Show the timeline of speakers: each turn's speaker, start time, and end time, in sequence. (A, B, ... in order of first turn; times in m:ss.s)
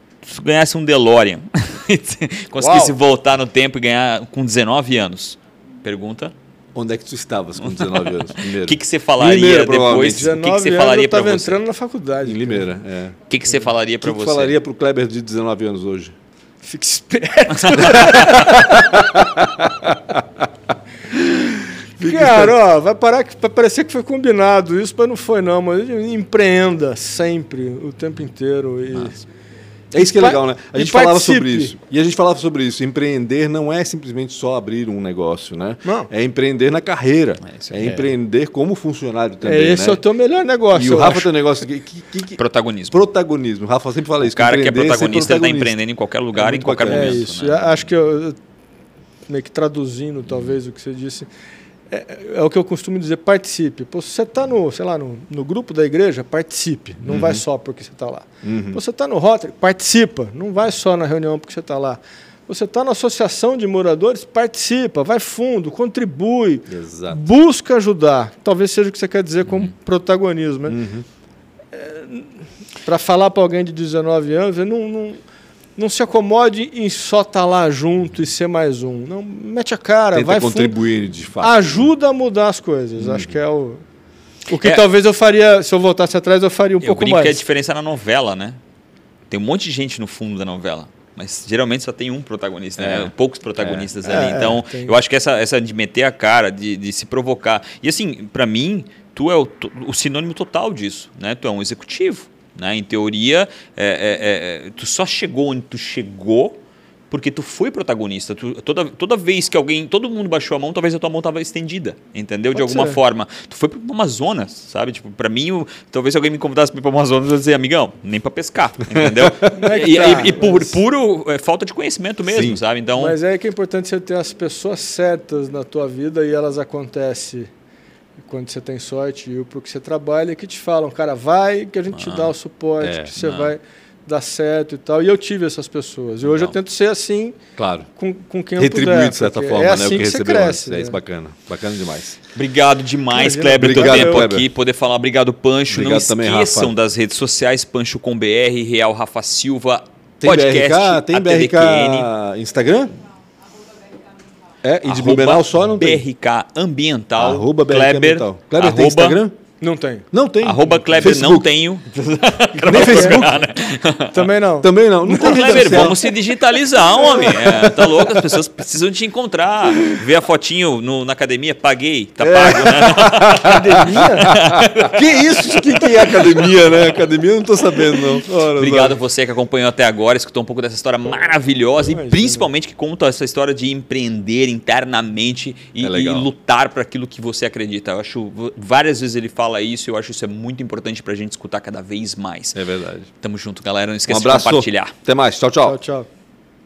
0:00.2-0:06.3 A
0:02.6-0:03.0 B
0:06.7-0:10.3 C
0:07.7-0:11.6 A
0:10.1-0:12.6 B
0:12.2-0:13.2 C
0:13.3-0:14.6 A
0:14.0-0:16.1 C
0:16.6-0:19.2 B
0:17.6-0:18.6 A
0:18.2-0:20.2 C
0:21.2-0:22.6 C
0:22.0-0:29.2 B
0:29.9-0:40.0 C
0:30.0-0:31.7 B
0:37.4-0:38.1 A
0:39.4-0:41.3 B
0:40.7-0:45.7 C
0:42.4-0:43.1 A
0:44.2-0:47.8 A
0:46.3-0:47.3 C
0:46.8-0:48.4 B
0:49.3-0:51.3 B
0:51.9-1:10.8 B
0:57.0-0:57.4 C
0:58.4-0:58.8 C
1:06.7-1:07.2 C
1:10.7-1:11.0 C
1:11.7-1:12.3 B
1:12.8-1:15.2 B
1:15.8-1:20.8 B
1:20.1-1:21.8 C
1:21.4-1:23.8 B
1:23.0-1:23.4 C
1:24.5-1:27.4 B
1:24.6-1:24.9 A
1:26.8-1:28.6 A
1:29.3-1:46.6 A
1:32.8-1:33.9 C
1:34.0-1:34.9 B
1:47.1-2:03.2 A
1:52.6-1:53.0 B
1:59.5-2:00.8 B
2:02.2-2:02.6 C
2:03.0-2:07.5 B
2:08.2-2:17.4 B
2:11.9-2:12.3 A
2:12.8-2:13.1 C
2:13.2-2:13.5 A
2:16.2-2:16.6 A
2:17.6-2:17.9 C
2:18.0-2:21.0 B
2:18.6-2:22.2 C
2:22.3-2:32.1 A
2:23.1-2:24.3 B
2:23.6-2:24.5 C
2:25.7-2:26.7 C
2:30.2-2:32.9 C
2:34.6-2:36.0 C
2:34.8-2:39.2 A
2:37.2-2:39.3 C
2:39.6-2:40.0 B
2:40.1-2:41.5 C
2:40.4-2:44.3 A
2:42.6-2:43.3 B
2:42.6-2:43.4 C
2:44.1-2:46.0 B
2:44.6-2:46.1 C
2:45.1-2:56.6 A
2:47.0-2:47.3 B
2:47.1-2:48.2 C
2:52.2-2:59.0 C
2:53.1-2:54.4 B
2:58.3-2:58.7 B
2:58.5-3:12.6 A
3:01.8-3:02.5 B
3:05.8-3:06.3 C
3:12.5-3:13.1 C
3:13.2-3:14.9 A
3:14.1-3:15.8 C
3:15.6-3:16.1 B